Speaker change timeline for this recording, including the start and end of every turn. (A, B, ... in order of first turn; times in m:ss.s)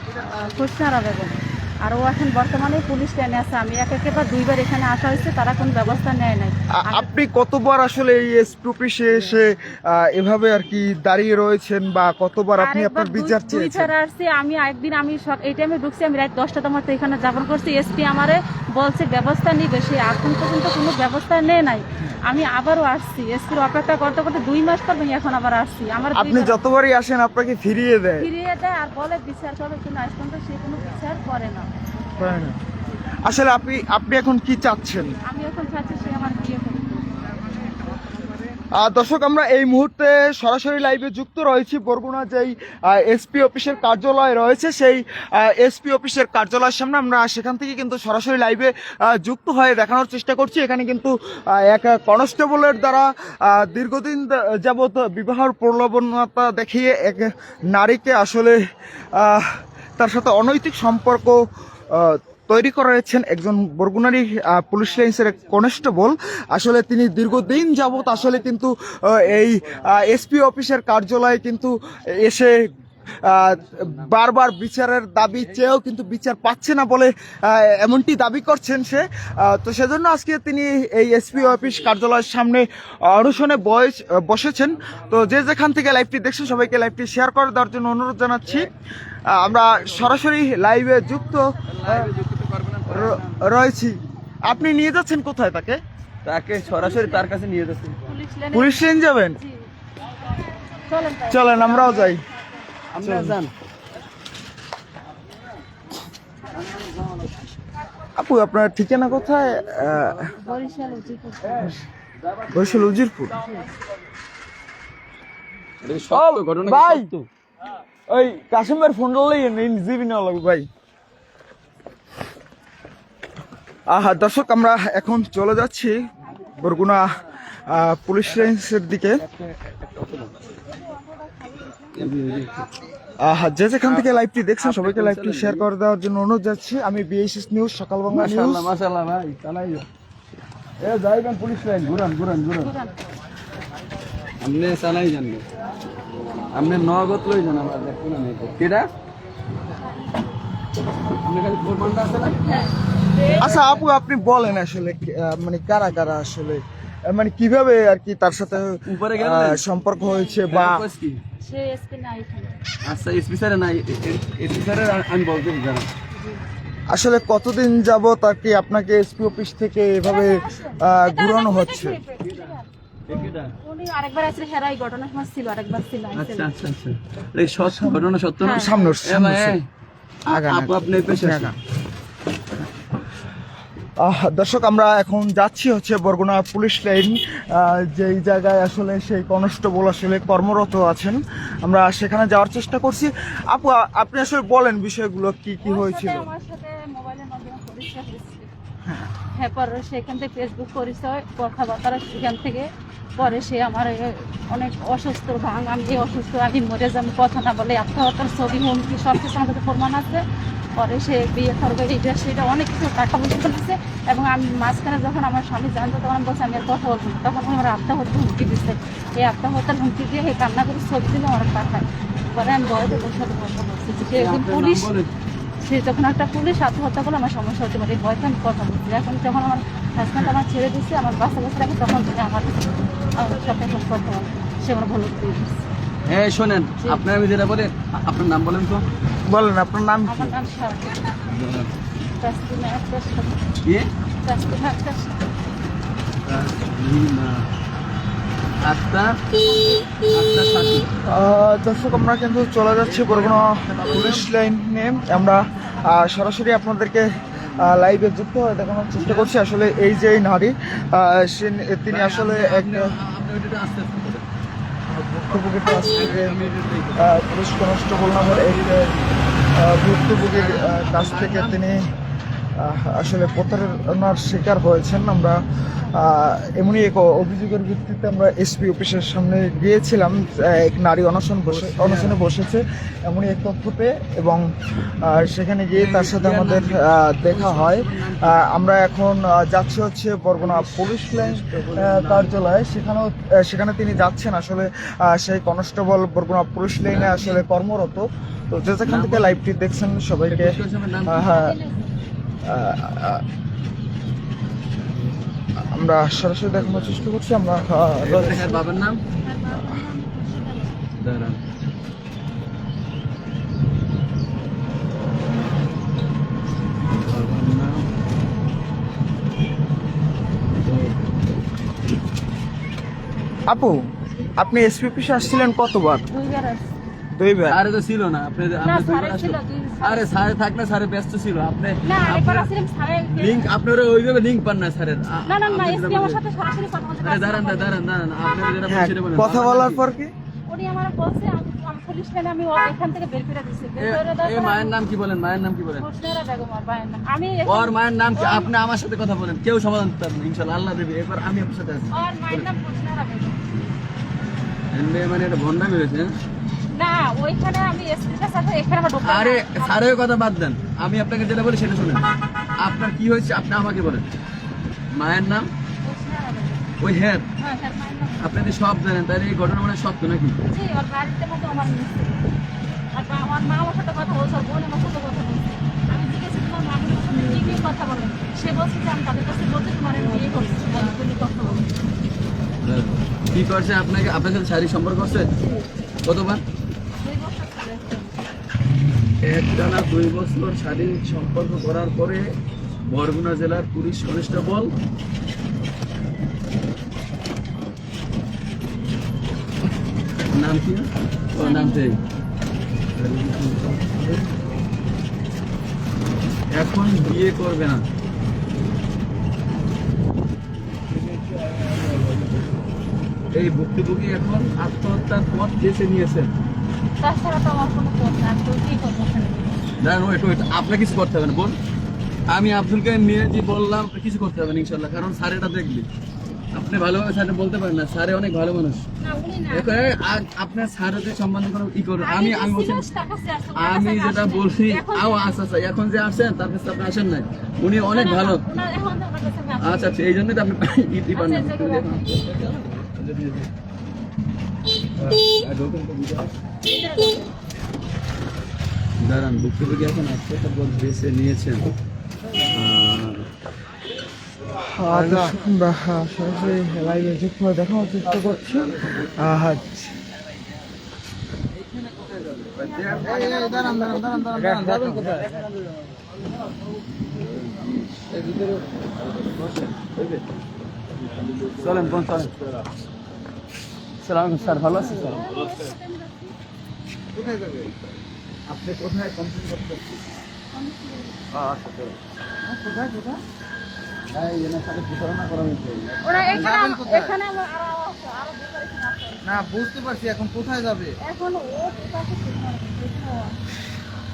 0:00.2-0:07.0 A
0:06.8-0:13.9 B
0:12.6-0:26.6 A
0:26.1-0:28.3 B
0:28.2-0:31.7 A
0:32.2-0:32.6 B
0:33.2-0:35.2 B
0:35.2-0:37.6 A
0:38.7-0:58.6 B
0:59.2-1:01.4 B
1:01.9-1:12.6 B
1:13.2-1:28.7 B
1:13.6-1:14.1 C
1:29.3-1:32.1 B
1:31.1-1:31.6 A
1:31.7-1:33.4 C
1:32.9-1:35.8 B
1:36.2-1:38.0 C
1:36.6-1:37.3 A
1:38.0-1:39.6 A
1:38.5-1:39.4 B
1:40.2-1:42.2 A
1:41.3-1:42.2 B
1:42.9-1:43.5 C
1:46.6-1:47.2 C
1:48.2-1:50.3 B
1:50.4-1:51.8 A
1:52.5-1:53.4 B
1:55.8-1:57.3 C
1:56.1-1:57.1 B
1:58.1-2:00.7 B
2:03.9-2:06.0 B
2:06.5-2:07.1 B
2:07.6-2:09.2 B
2:09.2-2:10.4 C
2:10.7-2:11.9 A
2:11.9-2:12.6 C
2:13.2-2:18.7 B
2:14.6-2:15.6 C
2:18.1-2:19.8 C
2:20.8-2:22.7 C
2:22.6-2:22.9 A
2:24.4-2:25.4 C
2:26.5-2:28.9 C
2:31.2-2:32.4 C
2:32.4-2:33.7 A
2:33.4-2:40.8 B
2:38.8-2:39.6 C
2:40.0-2:40.4 A
2:40.4-2:41.2 C
2:41.4-2:42.6 A
2:42.8-2:45.9 C
2:46.9-2:52.0 B
2:50.0-2:56.5 A
2:52.2-2:52.5 C
2:53.1-2:53.5 C
2:56.1-2:59.6 C
2:57.6-2:59.6 B
2:58.4-2:58.9 A
3:00.2-3:01.5 C
3:00.3-3:01.6 B
3:04.0-3:16.3 B
3:15.6-3:18.5 A
3:18.8-3:19.1 B
3:19.3-3:22.6 A
3:23.2-3:30.2 A
3:30.8-3:44.9 A
3:44.1-3:45.1 C
3:45.6-3:55.7 A
3:56.0-3:58.8 C
3:59.3-4:00.4 B
4:00.1-4:01.3 A
4:01.3-4:01.7 C
4:02.2-4:03.4 A
4:04.2-4:05.2 A
4:06.2-4:07.4 C
4:08.6-4:09.1 C
4:10.0-4:10.9 C
4:11.0-4:22.9 B
4:12.8-4:14.3 C
4:15.1-4:16.2 A
4:19.0-4:19.3 C
4:19.7-4:20.1 A
4:21.9-4:24.3 C
4:24.9-4:26.3 B
4:25.9-4:27.2 C
4:27.0-4:29.0 B
4:28.0-4:29.1 C
4:29.5-4:31.9 B
4:30.1-4:31.7 C
4:32.6-4:44.4 B
4:41.4-4:42.2 C
4:45.0-5:01.5 B
4:45.7-4:48.6 C
4:50.4-4:52.4 C
4:56.9-4:57.4 C
4:58.8-4:59.4 C
5:00.3-5:01.3 C
5:01.2-5:01.9 A
5:02.4-5:03.2 B
5:05.6-5:08.6 B
5:06.4-5:07.1 C
5:08.0-5:09.0 C
5:09.1-5:10.8 A
5:11.0-5:11.4 C
5:16.9-5:17.8 C
5:20.6-5:21.0 C
5:23.5-5:23.8 B
5:24.3-5:26.1 B
5:26.1-5:26.7 A
5:27.1-5:27.6 B
5:27.5-5:32.5 C
5:28.6-5:30.2 A
5:31.8-5:33.5 A
5:33.1-5:36.2 C
5:35.2-5:37.8 A
5:37.0-5:39.8 C
5:38.6-5:40.1 B
5:40.5-5:44.8 A
5:43.8-5:45.8 C
5:45.8-5:48.5 A
5:47.4-5:52.5 C
5:51.9-5:53.4 A
5:54.7-5:56.1 C
5:56.7-5:59.9 A
5:59.0-6:02.0 C
6:02.6-6:04.1 C
6:04.9-6:05.5 C
6:05.8-6:06.8 A
6:06.8-6:07.3 C
6:07.4-6:08.4 A
6:08.2-6:10.4 C
6:10.5-6:12.2 A
6:12.9-6:21.7 A
6:17.1-6:17.7 C
6:22.6-6:25.3 C
6:25.4-6:25.6 A
6:26.0-6:26.4 C
6:27.0-6:28.2 A
6:29.2-6:32.2 C
6:32.8-6:34.7 C
6:40.3-6:42.0 C
6:41.4-6:41.9 A
6:42.9-6:44.2 C
6:46.5-6:47.8 C
6:51.0-6:52.4 C
6:53.3-6:56.3 C
6:57.0-6:59.6 A
6:59.8-7:01.5 C
7:02.3-7:05.9 C
7:06.5-7:08.8 C
7:09.0-7:09.9 A
7:09.5-7:12.9 C
7:12.0-7:15.3 A
7:13.5-7:18.4 C
7:17.8-7:20.0 A
7:19.6-7:23.5 C
7:21.1-7:22.1 A
7:25.0-7:26.3 C
7:26.6-7:27.3 A
7:29.0-7:31.6 C
7:32.5-7:33.2 C
7:34.6-7:40.0 B
7:34.9-7:35.4 C
7:38.6-7:39.0 C
7:41.8-7:45.4 D
7:42.2-7:45.3 C
7:42.8-7:43.8 A
7:43.0-7:44.8 B
7:47.0-7:48.4 C
7:49.2-7:50.2 C
7:51.1-7:52.4 C
7:54.0-7:55.3 C
7:54.7-7:56.4 A
7:57.1-7:57.7 D
7:58.5-8:00.0 C
8:00.5-8:01.2 A
8:01.3-8:02.0 C
8:02.5-8:02.9 D
8:02.6-8:03.1 B
8:04.1-8:06.6 C
8:06.0-8:09.5 A
8:06.4-8:06.8 B
8:06.5-8:07.0 D
8:09.3-8:10.9 D
8:11.0-8:13.4 A